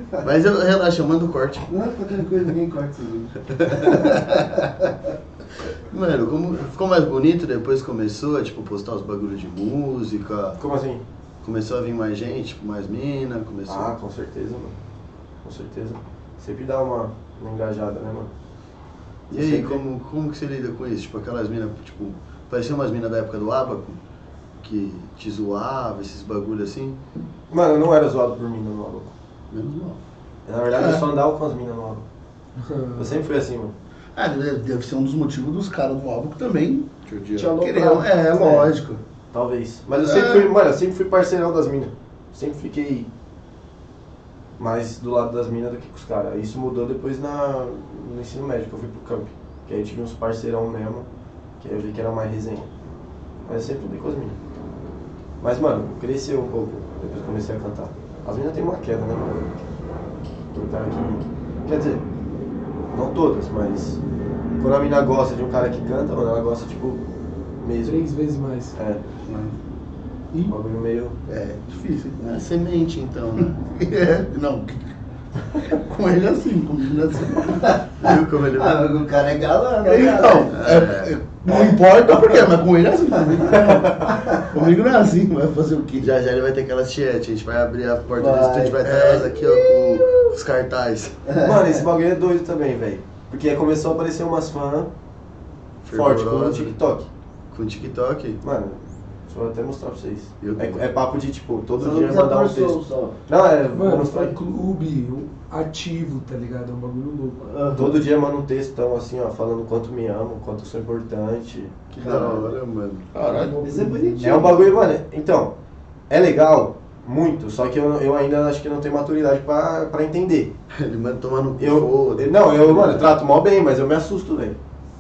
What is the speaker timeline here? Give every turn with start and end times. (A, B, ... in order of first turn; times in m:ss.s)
0:00.2-0:01.7 A
0:01.7-0:04.7 B
0:03.6-0:04.2 A
0:05.7-0:10.6 A
0:10.6-0:11.0 C
0:11.4-0:13.9 A
0:13.7-0:14.8 C
0:15.4-0:18.3 C
0:19.3-0:19.8 C
0:19.3-0:24.0 A
0:24.6-0:27.0 A
0:27.5-0:29.1 C
0:29.5-0:30.0 A
0:30.5-0:32.0 C
0:30.7-0:31.0 D
0:32.6-0:33.2 E
0:33.0-0:33.7 C
0:34.2-0:39.0 D
0:37.1-0:37.6 A
0:37.7-0:38.0 E
0:39.3-0:43.1 C
0:40.0-0:40.5 D
0:44.6-0:51.1 C
0:51.6-0:52.7 C
0:53.5-0:54.4 C
0:55.4-0:59.5 C
1:00.5-1:02.0 C
1:02.9-1:04.0 C
1:04.6-1:07.0 C
1:07.6-1:08.0 C
1:07.8-1:08.8 E
1:08.8-1:09.0 C
1:09.2-1:09.6 D
1:10.5-1:11.2 C
1:11.3-1:12.4 D
1:12.2-1:13.6 A
1:13.4-1:14.9 D
1:15.6-1:17.8 D
1:18.0-1:18.8 A
1:18.6-1:20.8 B
1:19.8-1:26.1 D
1:20.5-1:21.1 A
1:23.4-1:24.4 B
1:26.0-1:31.2 A
1:28.1-1:29.1 B
1:29.0-1:29.8 D
1:31.3-1:31.7 B
1:31.4-1:34.9 C
1:35.8-1:36.8 A
1:35.9-1:37.1 C
1:37.5-1:38.4 A
1:38.4-1:44.4 C
1:40.4-1:40.8 A
1:41.8-1:43.2 B
1:43.7-1:47.5 E
1:47.4-1:48.0 B
1:47.8-1:51.7 C
1:51.9-1:53.1 A
1:52.0-1:52.5 B
1:53.1-1:54.2 D
1:53.2-1:54.7 B
1:54.2-1:55.5 C
1:56.1-2:00.5 C
2:00.7-2:03.1 A
2:01.6-2:04.6 C